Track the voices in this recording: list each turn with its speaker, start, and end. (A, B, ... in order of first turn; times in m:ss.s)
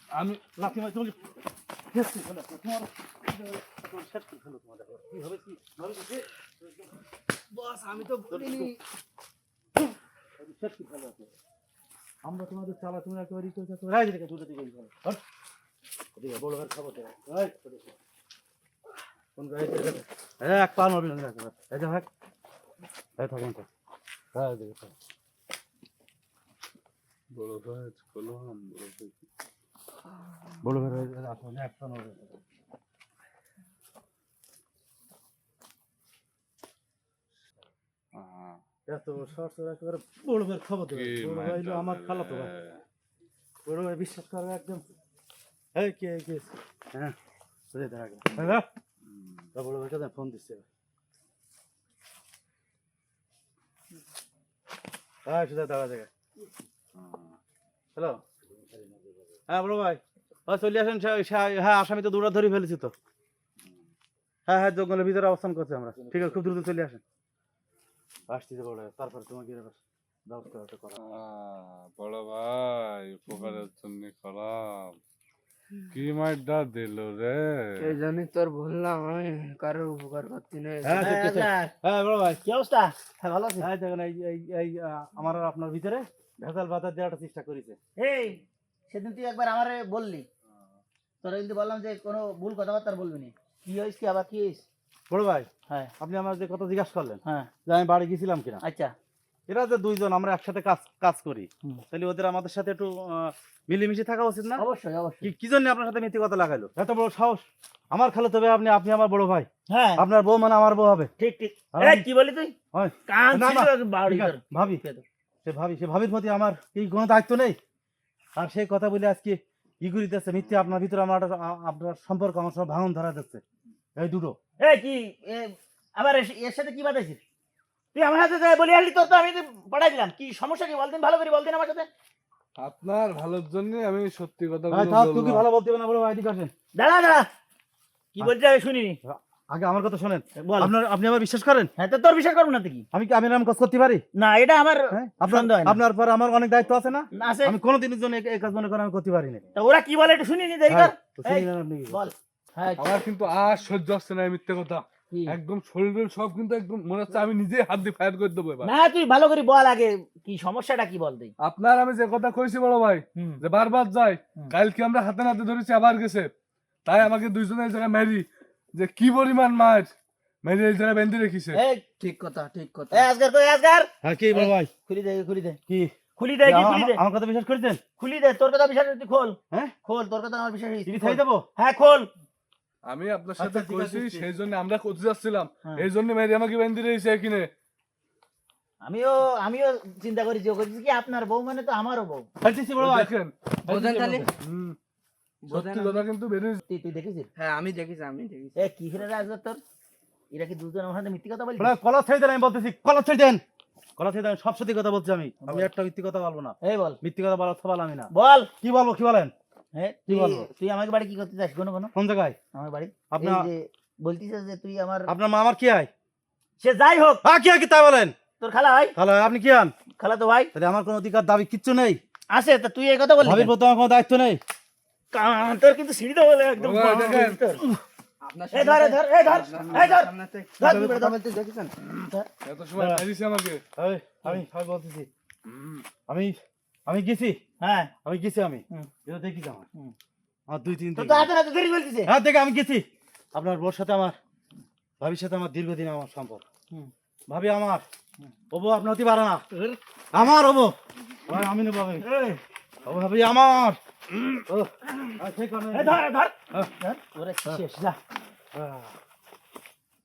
0:00.1-0:00.4 A
0:00.4-0:01.3 B
0:01.9-0:06.3 B
0:07.6-0:08.7 C
0:08.3-0:08.7 B
0:10.4-0:11.3 B
0:12.2-0:15.2 B
0:16.2-0:17.9 B
0:19.4-0:22.1 B
0:23.2-0:23.6 B
0:24.3-0:24.9 B
0:27.3-0:29.2 A
0:30.6-0:32.4 B
0:38.1-0:38.6 A
0:38.9-0:42.5 B
0:40.9-0:42.8 A
0:43.6-0:44.9 B
0:45.7-0:47.1 B
0:47.7-0:48.6 B
0:49.1-0:49.5 A
0:49.5-0:50.6 B
0:55.2-0:56.1 B
0:57.0-0:57.3 A
0:57.9-0:59.0 B
0:59.5-1:02.9 B
1:04.5-1:07.0 B
1:08.3-1:11.0 B
1:11.0-1:15.0 A
1:15.9-1:17.9 A
1:17.8-1:21.2 C
1:20.8-1:22.4 B
1:21.0-1:21.7 D
1:22.4-1:23.7 D
1:23.6-1:27.8 B
1:28.0-1:30.2 D
1:31.2-1:34.6 D
1:35.1-1:35.5 B
1:36.0-1:38.6 B
1:37.2-1:37.5 D
1:38.6-1:38.9 D
1:39.5-1:44.6 B
1:44.6-1:45.3 D
1:45.2-1:51.1 B
1:49.7-1:50.0 D
1:51.2-1:52.5 D
1:51.7-1:52.0 B
1:52.7-1:54.8 B
1:53.1-1:55.0 D
1:55.4-1:57.6 B
1:58.4-2:03.4 B
2:04.0-2:04.4 B
2:04.6-2:07.2 D
2:07.9-2:11.9 D
2:12.6-2:15.4 A
2:14.7-2:16.5 B
2:16.7-2:17.3 D
2:18.1-2:19.0 D
2:19.0-2:21.7 B
2:20.4-2:20.7 D
2:21.8-2:22.8 D
2:22.9-2:24.0 B
2:24.1-2:25.8 D
2:24.9-2:29.4 B
2:27.1-2:27.5 D
2:29.5-2:32.9 D
2:30.7-2:32.1 B
2:32.8-2:38.7 A
2:35.1-2:35.4 D
2:38.6-2:41.3 D
2:41.4-2:46.3 A
2:43.2-2:43.4 D
2:46.8-2:51.6 A
2:51.5-2:51.8 D
2:52.0-2:53.1 C
2:52.9-2:55.6 D
2:54.0-2:54.7 B
2:55.7-2:55.9 B
2:56.2-2:57.0 D
2:56.4-2:57.8 B
2:58.0-3:02.1 D
3:00.8-3:01.4 B
3:02.8-3:07.5 A
3:03.4-3:04.3 B
3:08.8-3:12.2 D
3:12.4-3:13.1 B
3:12.8-3:13.8 A
3:13.6-3:14.3 C
3:13.8-3:14.2 B
3:14.4-3:14.8 A
3:15.4-3:16.0 C
3:15.5-3:16.6 A
3:16.7-3:17.3 D
3:17.4-3:18.6 C
3:18.6-3:19.6 D
3:20.3-3:21.7 D
3:21.6-3:23.4 B
3:24.0-3:29.3 B
3:25.4-3:25.7 D
3:26.6-3:27.0 D
3:28.1-3:28.5 D
3:29.7-3:31.9 D
3:30.1-3:30.5 B
3:31.9-3:32.4 B
3:32.5-3:35.1 D
3:33.1-3:33.5 B
3:35.1-3:35.9 B
3:36.6-3:37.2 D
3:37.2-3:38.1 B
3:38.4-3:38.9 D
3:39.0-3:39.7 B
3:40.0-3:40.5 D
3:40.5-3:42.0 B
3:42.3-3:43.5 D
3:43.2-3:44.4 B
3:45.1-3:47.6 D
3:46.6-3:47.4 A
3:48.2-3:51.7 C
3:48.5-3:51.2 D
3:52.4-3:53.6 A
3:52.8-3:53.0 B
3:53.8-3:55.1 B
3:55.4-3:55.8 A
3:56.1-3:56.3 B
3:56.8-3:57.4 B
3:57.6-3:57.9 D
3:58.0-3:59.7 B
4:00.5-4:01.3 B
4:01.0-4:02.1 D
4:02.0-4:04.2 B
4:05.0-4:06.4 B
4:07.3-4:07.8 B
4:08.5-4:09.4 B
4:10.1-4:10.7 B
4:11.2-4:12.0 B
4:12.0-4:12.4 D
4:12.8-4:13.8 B
4:14.4-4:16.7 B
4:15.7-4:18.0 D
4:18.5-4:18.9 B